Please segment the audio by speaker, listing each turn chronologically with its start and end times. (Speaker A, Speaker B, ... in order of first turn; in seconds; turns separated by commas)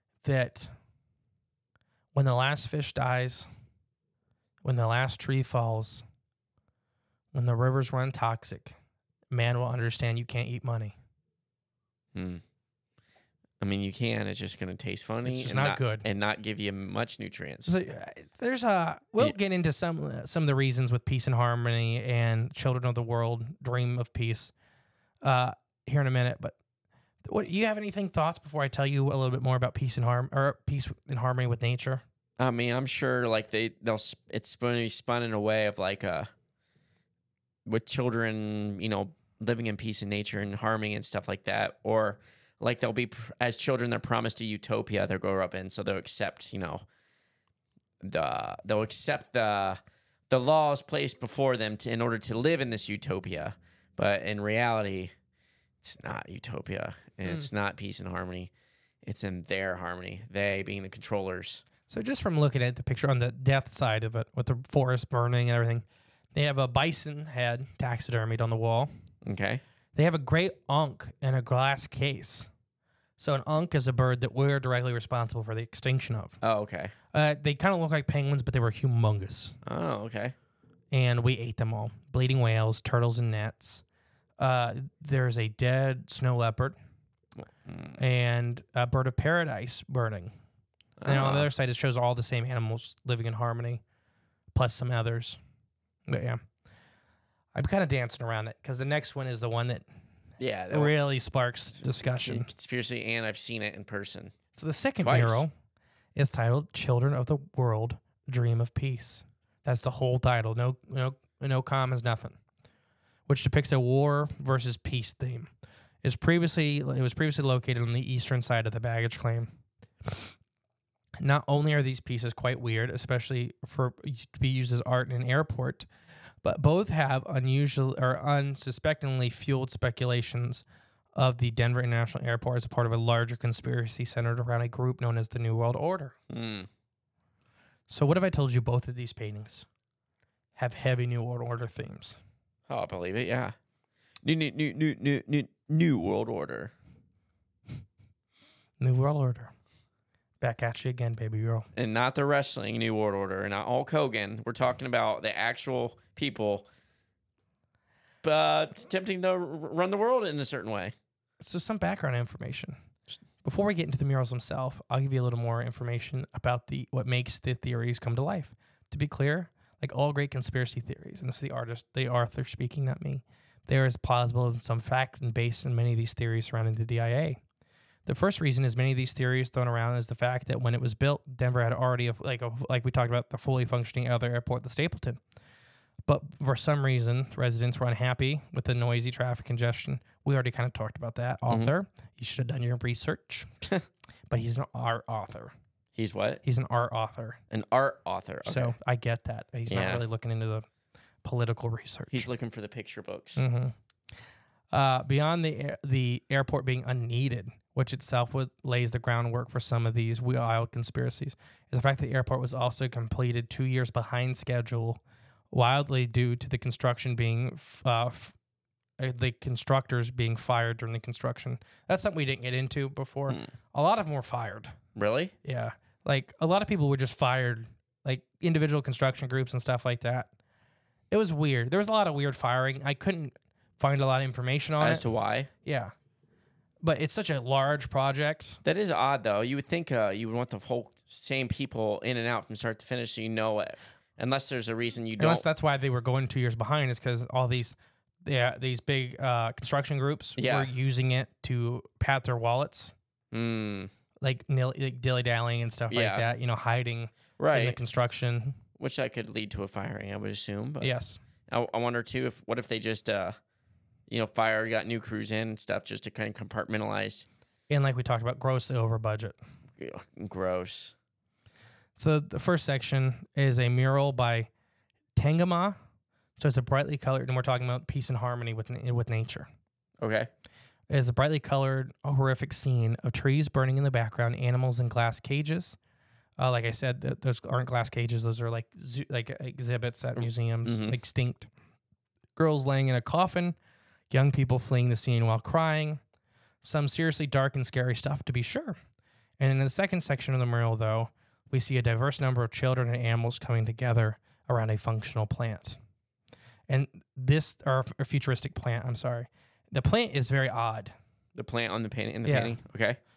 Speaker A: 0.2-0.7, Speaker A: 2.1-3.5, Speaker A: 4.6-6.0, Speaker A: 7.3-8.8, Speaker A: 9.3-10.9, Speaker B: 12.1-12.4, Speaker B: 13.6-17.7, Speaker A: 15.2-16.0, Speaker A: 17.6-24.5, Speaker A: 25.2-26.6, Speaker A: 27.2-32.0, Speaker B: 32.4-36.3, Speaker B: 37.6-46.8, Speaker B: 48.0-55.1, Speaker B: 55.8-58.5, Speaker B: 59.0-61.6, Speaker A: 61.9-68.9, Speaker B: 69.2-69.6, Speaker A: 69.9-72.5, Speaker A: 73.2-76.4, Speaker B: 76.4-76.9, Speaker A: 77.1-79.6, Speaker B: 79.6-80.3, Speaker A: 80.9-83.8, Speaker A: 84.4-86.8, Speaker B: 87.4-88.0, Speaker A: 88.0-90.3, Speaker B: 91.0-91.5, Speaker A: 91.1-93.8, Speaker A: 94.5-95.4, Speaker A: 96.1-96.4, Speaker A: 97.5-99.8, Speaker B: 100.4-101.0, Speaker A: 100.7-102.5, Speaker B: 101.8-104.3, Speaker A: 104.5-105.5, Speaker B: 105.0-105.4, Speaker A: 106.2-112.4, Speaker A: 113.3-115.5, Speaker A: 116.0-119.5, Speaker A: 120.0-120.3, Speaker A: 121.2-125.9, Speaker A: 126.4-130.6, Speaker A: 131.1-136.2, Speaker B: 136.3-136.7, Speaker A: 137.9-139.7, Speaker A: 140.6-142.2, Speaker B: 142.7-143.5, Speaker B: 144.2-146.7, Speaker A: 148.8-149.5, Speaker A: 150.4-151.7, Speaker B: 151.8-156.7, Speaker B: 158.2-160.9, Speaker A: 161.4-162.8, Speaker A: 163.4-177.4, Speaker A: 178.1-185.2, Speaker A: 186.1-193.5, Speaker A: 194.3-195.5, Speaker B: 195.9-196.4, Speaker A: 196.4-197.4, Speaker B: 197.5-198.7, Speaker A: 198.4-200.7, Speaker B: 199.7-200.0, Speaker A: 201.2-202.3, Speaker B: 202.1-203.4, Speaker A: 203.4-203.7, Speaker A: 204.7-215.0, Speaker A: 215.5-218.3, Speaker A: 219.0-224.7, Speaker B: 224.9-225.3, Speaker A: 225.4-230.3, Speaker A: 231.1-235.0, Speaker B: 234.8-235.5, Speaker A: 235.6-235.9, Speaker A: 236.8-238.6, Speaker B: 238.6-245.4, Speaker A: 245.2-252.9, Speaker B: 250.4-250.7, Speaker B: 253.3-253.9, Speaker A: 254.2-258.6, Speaker B: 255.9-256.2, Speaker B: 257.4-257.8, Speaker B: 258.8-260.9, Speaker A: 260.8-261.2, Speaker B: 261.5-263.4, Speaker B: 264.1-267.2, Speaker A: 267.7-269.4, Speaker B: 269.8-270.9, Speaker A: 271.9-274.5, Speaker A: 275.1-275.8, Speaker A: 276.4-279.5, Speaker B: 280.0-280.3, Speaker A: 280.9-285.8, Speaker A: 286.4-291.5, Speaker B: 290.1-290.9, Speaker A: 292.4-293.5, Speaker A: 294.1-296.0, Speaker A: 296.6-298.8, Speaker A: 299.4-305.8, Speaker A: 306.7-310.9, Speaker B: 311.3-313.0, Speaker A: 312.2-312.6